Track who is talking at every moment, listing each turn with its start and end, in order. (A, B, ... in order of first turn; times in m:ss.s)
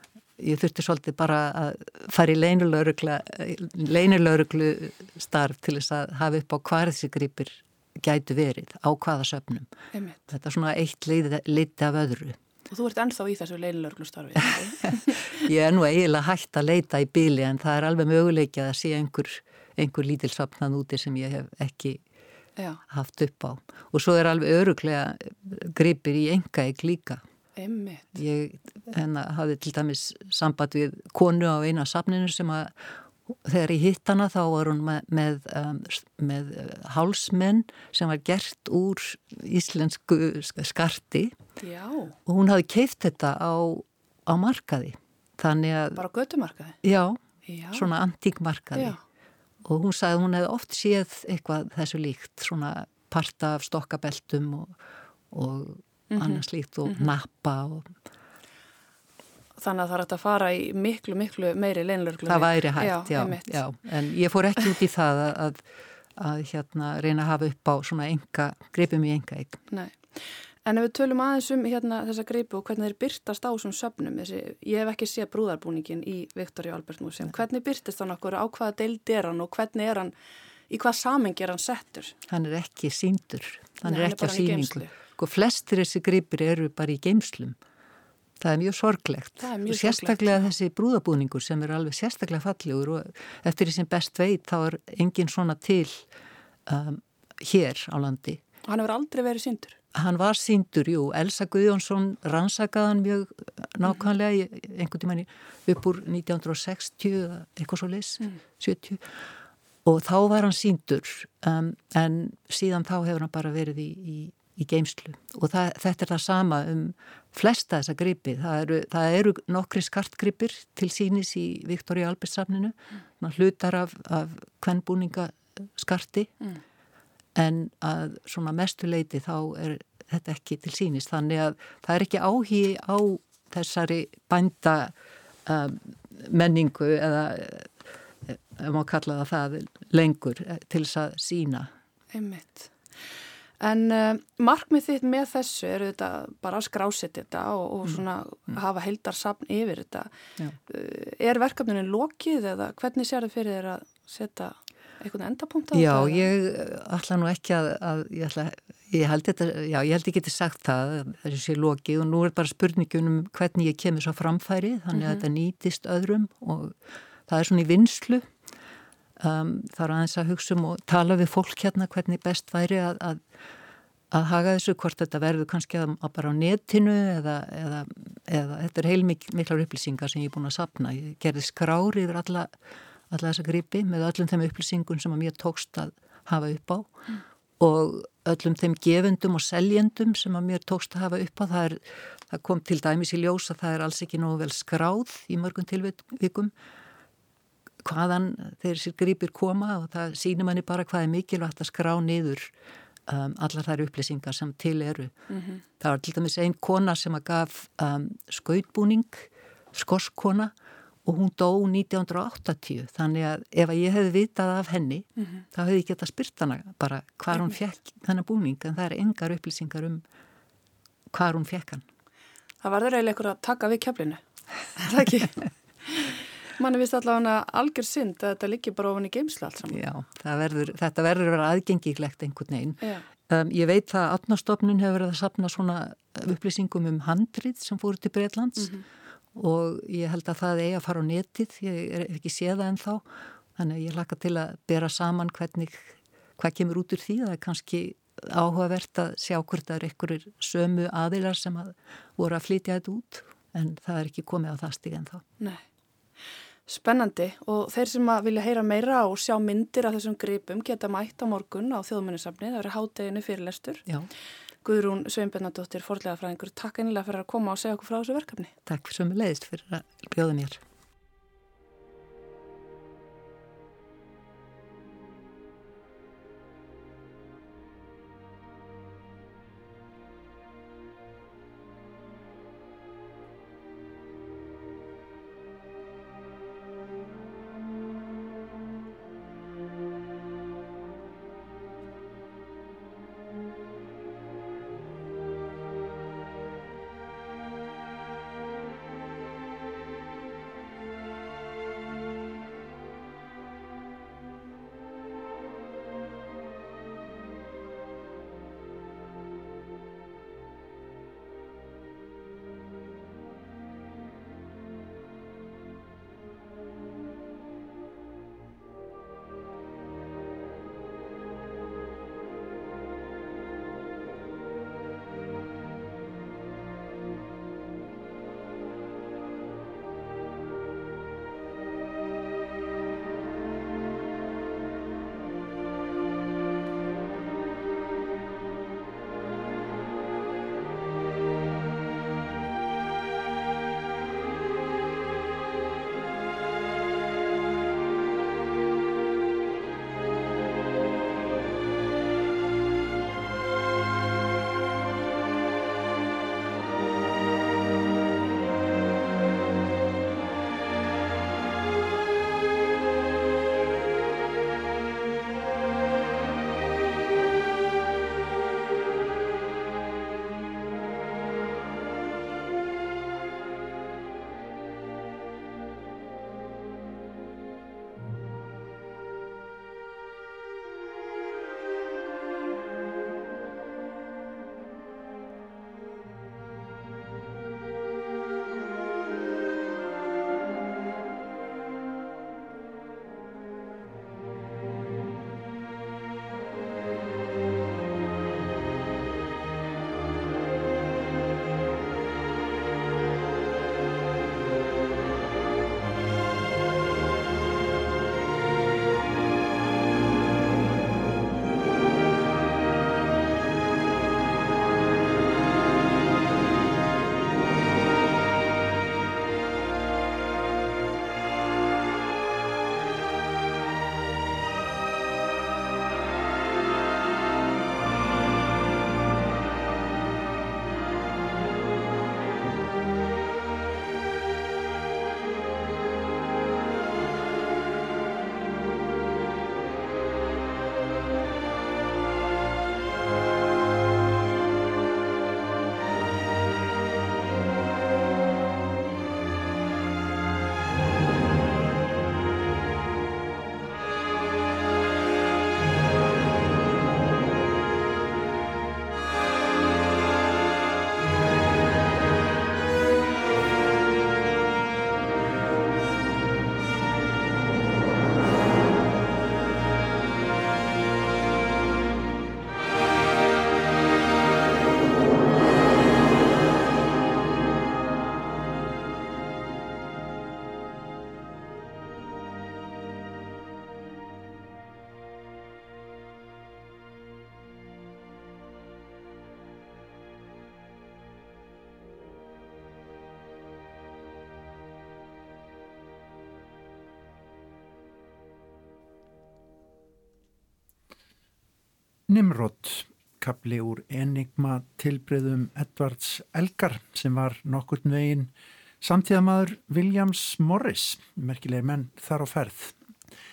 0:00.4-0:09.7 A
0:09.9-0:10.2 B
0:10.3-0:12.4 A
0:12.7-0:15.3 B
0:14.8-0:22.0 A
0:22.9-0:27.2 A
0:27.6-0:28.1 B
0:28.1-0:32.7 A
0:33.3-0:41.3 A
0:41.6-0:42.2 B
0:42.2-0:46.0 A
0:46.0-0:46.8 B
0:46.8-0:47.2 A
0:47.4-0:47.9 B
0:47.7-0:48.9 A
0:49.6-0:54.8 A
0:55.3-0:57.9 A
0:56.1-0:57.1 B
0:59.6-1:03.6 B
1:02.2-1:05.6 A
1:06.2-1:09.6 A
1:09.7-1:20.1 B
1:20.7-1:22.1 B
1:22.3-1:27.6 A
1:23.8-1:24.9 B
1:28.4-1:36.1 A
1:29.4-1:30.5 B
1:36.7-1:38.4 A
1:38.6-1:39.8 B
1:39.9-1:49.0 A
1:49.8-2:06.3 A
2:07.3-2:14.9 A
2:15.4-2:17.7 A
2:18.2-2:21.7 A
2:22.1-2:22.7 B
2:23.6-2:30.1 B
2:30.7-2:36.2 B
2:35.7-2:48.3 A
2:44.9-2:45.2 B
2:49.2-2:53.2 A
2:54.1-3:02.5 A
3:03.1-3:06.9 A
3:07.6-3:16.5 A
3:17.8-3:22.5 A
3:23.1-3:25.1 A
3:25.3-3:25.6 B
3:25.8-3:30.5 A
3:31.0-3:40.0 A
3:41.1-3:41.8 A
3:42.6-3:44.2 B
3:44.8-3:49.8 B
3:49.7-3:58.7 A
3:58.6-3:58.8 B
3:59.3-4:03.0 A
4:03.6-4:15.2 A
4:16.7-4:23.8 B
4:24.6-4:28.5 B
4:28.6-4:30.6 A
8:22.1-8:32.8 C